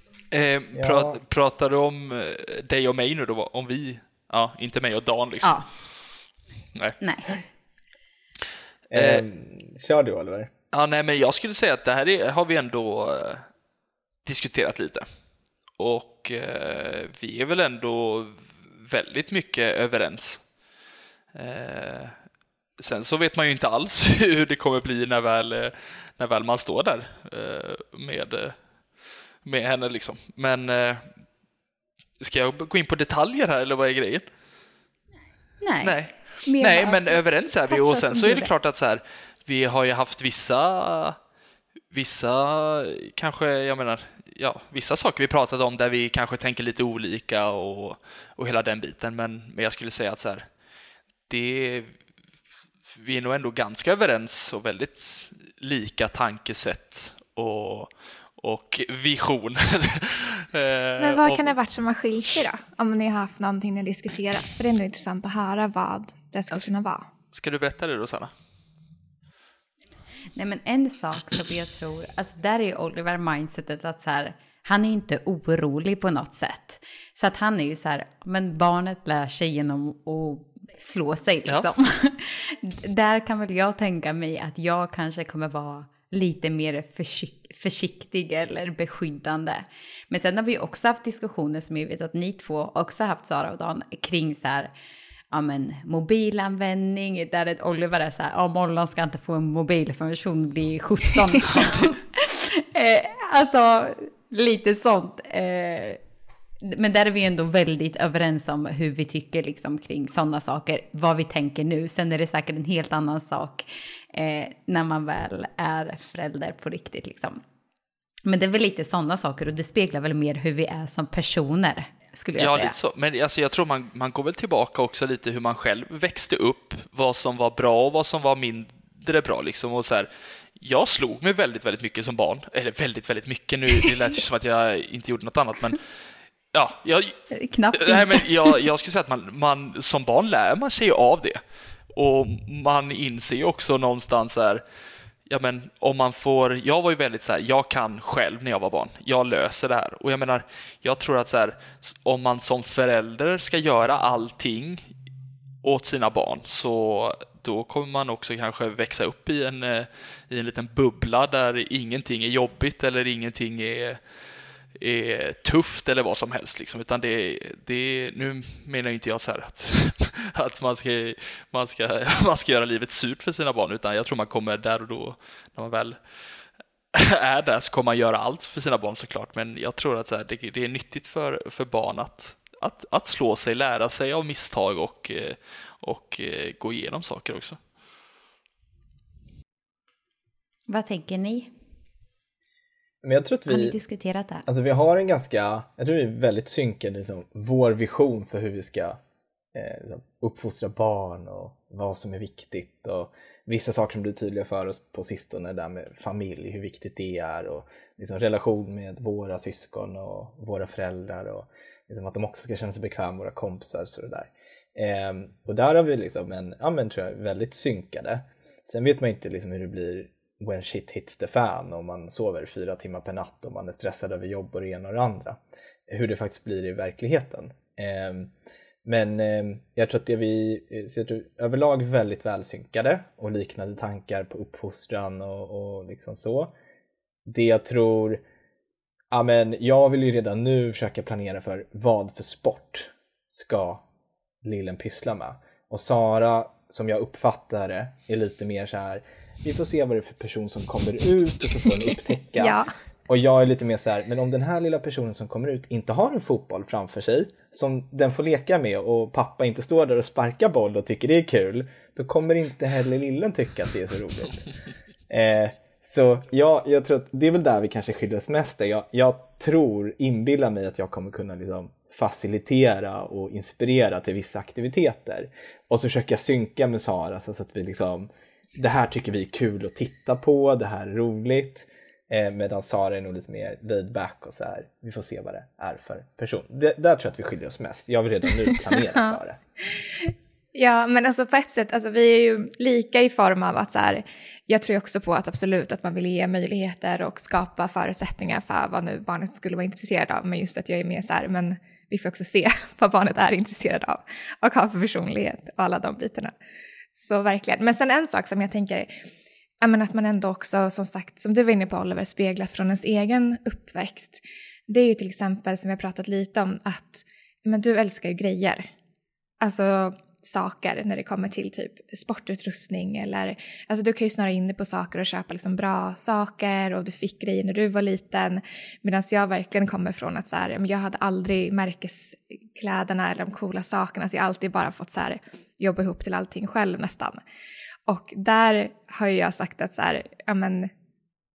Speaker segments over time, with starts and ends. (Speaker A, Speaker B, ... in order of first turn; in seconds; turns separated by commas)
Speaker A: 0.3-5.9, Speaker B: 0.8-1.2, Speaker C: 5.4-5.7, Speaker C: 7.0-7.4, Speaker B: 8.9-10.5, Speaker A: 8.9-9.2, Speaker A: 10.7-13.5, Speaker A: 14.2-15.1, Speaker A: 15.7-20.5, Speaker A: 21.3-22.2, Speaker A: 22.8-31.1, Speaker A: 32.2-34.3, Speaker C: 35.6-38.5, Speaker A: 35.8-41.2, Speaker A: 41.9-50.5, Speaker A: 51.3-52.0, Speaker A: 53.0-61.5, Speaker D: 61.0-67.1, Speaker A: 67.3-68.3, Speaker C: 70.4-94.7, Speaker C: 95.3-106.0, Speaker C: 106.6-117.4, Speaker C: 118.3-122.8, Speaker A: 122.4-137.2, Speaker C: 137.3-138.3, Speaker A: 137.7-144.6, Speaker A: 145.3-154.9, Speaker A: 155.6-187.6, Speaker C: 190.7-191.5, Speaker B: 193.0-193.8, Speaker C: 193.5-194.5, Speaker B: 194.5-199.0, Speaker B: 199.5-228.3, Speaker B: 228.8-236.5, Speaker B: 237.3-238.2, Speaker B: 239.1-243.8, Speaker B: 244.4-264.5, Speaker D: 252.4-252.7, Speaker B: 265.1-289.4, Speaker D: 289.8-306.3, Speaker D: 307.0-308.9, Speaker D: 309.6-318.7, Speaker D: 319.4-337.2, Speaker D: 337.9-340.7